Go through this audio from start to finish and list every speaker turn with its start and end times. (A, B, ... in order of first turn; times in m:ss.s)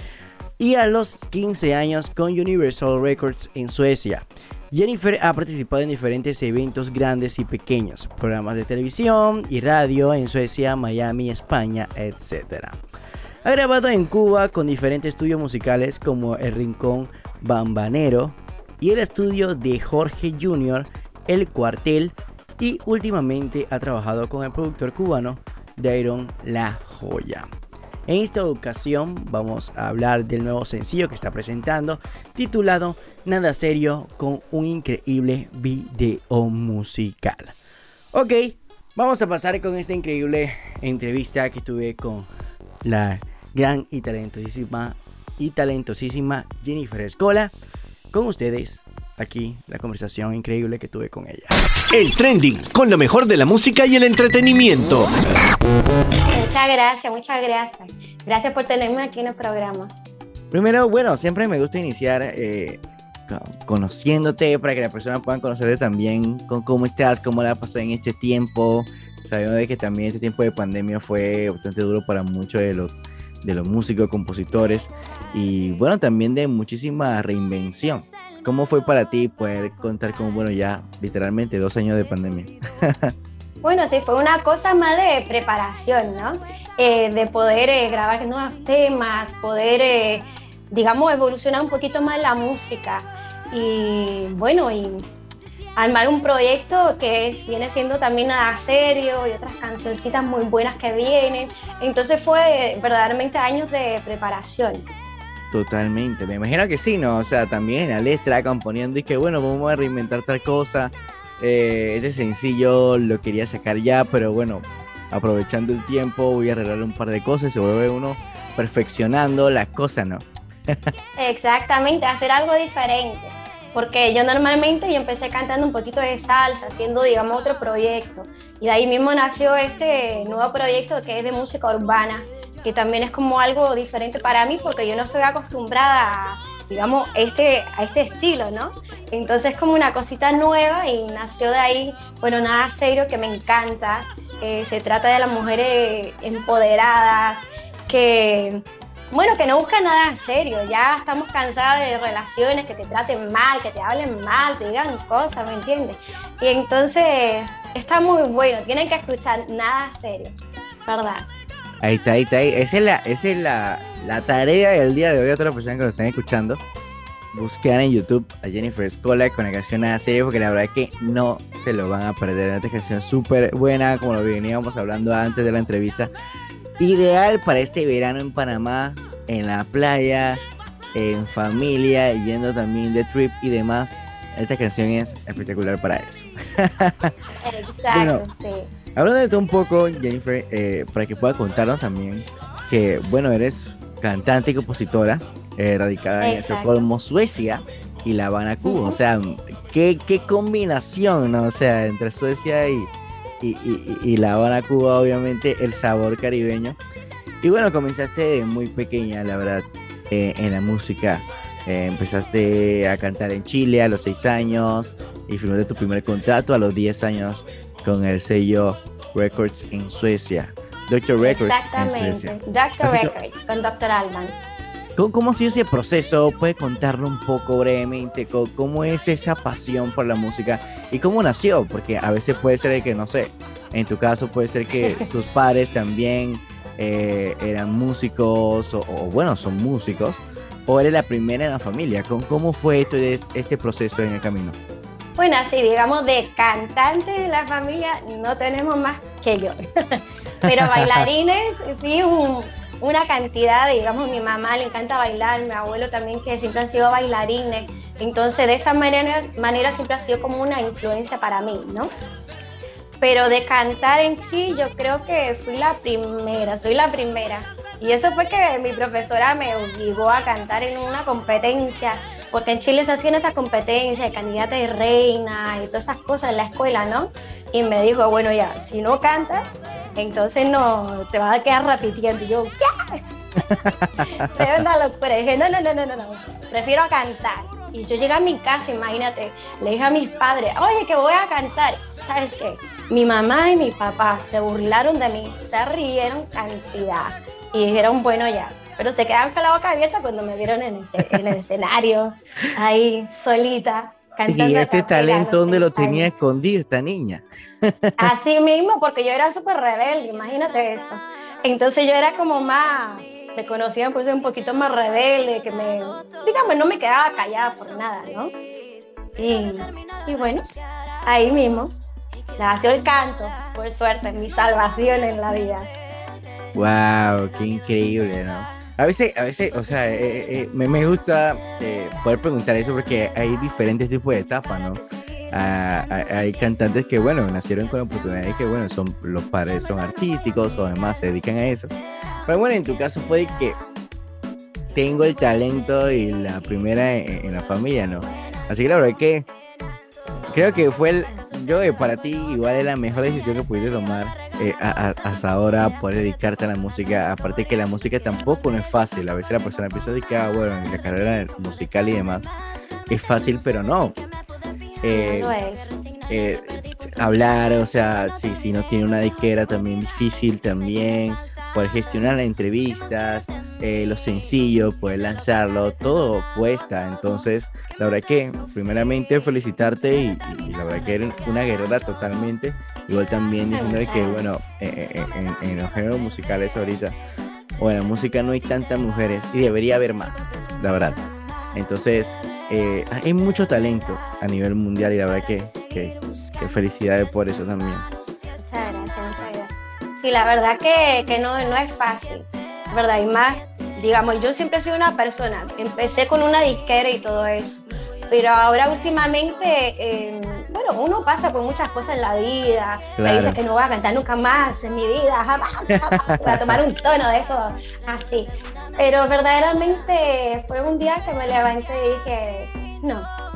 0:00.6-0:12.8 A
0:13.4-0:27.5 A
0:28.1-0:37.6 A
0:38.1-0:42.3 A
0:42.8-0:47.5 A
0:48.1-0:51.6 A
0:51.9-0:55.1 B
0:56.3-0:59.9 C
1:00.5-1:23.1 A
1:23.6-1:35.0 C
1:35.8-1:44.8 C
1:45.5-2:00.2 A
2:01.2-2:40.3 C
2:40.9-2:41.3 C
2:41.8-2:46.6 A
2:47.3-2:56.1 A
2:56.8-3:00.4 A
3:01.0-3:07.1 A
3:07.4-3:08.7 C
3:07.9-3:08.2 A
3:09.0-3:22.9 A
3:16.2-3:16.7 C
3:18.6-3:19.0 C
3:23.4-3:26.8 A
3:27.4-3:43.1 A
3:41.2-3:44.4 C
3:45.0-4:04.6 A
4:05.2-4:21.9 C
4:10.5-4:11.1 A
4:23.0-4:43.0 C
4:43.5-4:44.1 A
4:44.2-5:06.1 C
5:04.3-5:07.9 A
5:08.0-5:18.3 C
5:19.2-5:20.5 C
5:21.0-5:21.7 C
5:22.4-5:25.7 C
5:26.5-5:34.8 A
5:35.3-5:41.7 A
5:42.3-5:43.6 A
5:44.7-5:49.2 A
5:50.3-6:02.3 A
6:02.9-6:04.0 A
6:04.8-6:05.4 A
6:04.9-6:05.7 C
6:06.1-6:27.0 A
6:23.5-6:24.3 C
6:27.6-6:31.0 A
6:31.5-6:37.9 A
6:38.5-7:03.1 C
6:53.0-6:53.4 A
6:55.8-6:56.6 A